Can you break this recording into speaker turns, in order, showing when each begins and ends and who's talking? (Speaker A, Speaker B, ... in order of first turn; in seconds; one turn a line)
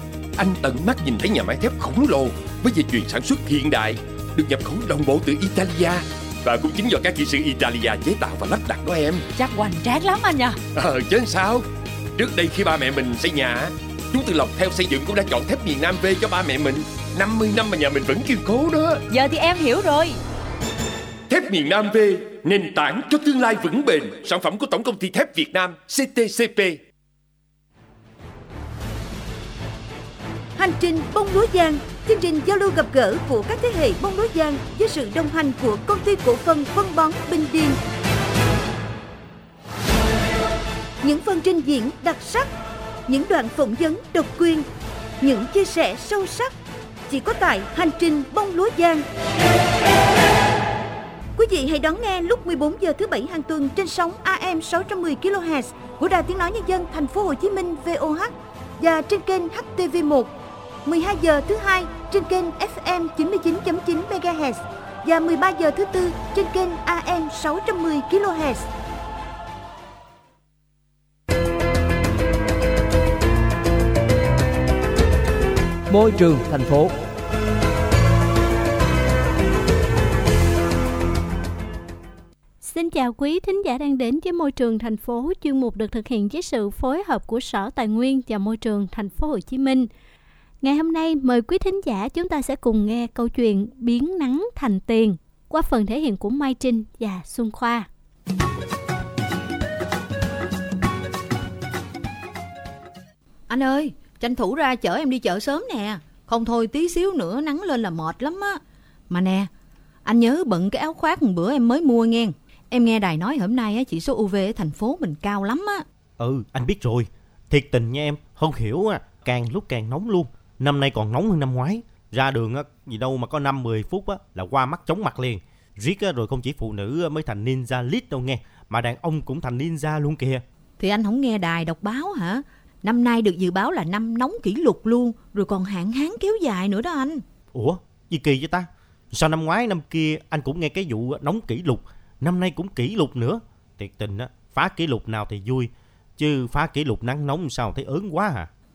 Speaker A: 0.4-9.2
Speaker B: 9.4-10.6
Speaker A: 10.8-19.0
Speaker B: 19.1-20.2
Speaker A: 21.3-26.8
Speaker C: 30.6-37.8
Speaker C: 41.0-42.5
Speaker C: 43.1-44.7
Speaker C: 45.2-46.5
Speaker C: 47.1-49.0
Speaker C: 51.4-60.3
Speaker C: 60.9-68.7
Speaker D: 82.6-89.9
Speaker D: 90.6-97.9
Speaker E: 103.5-109.5
Speaker E: 110.0-115.8
Speaker F: 116.2-130.4
Speaker E: 130.8-137.2
Speaker F: 137.5-148.5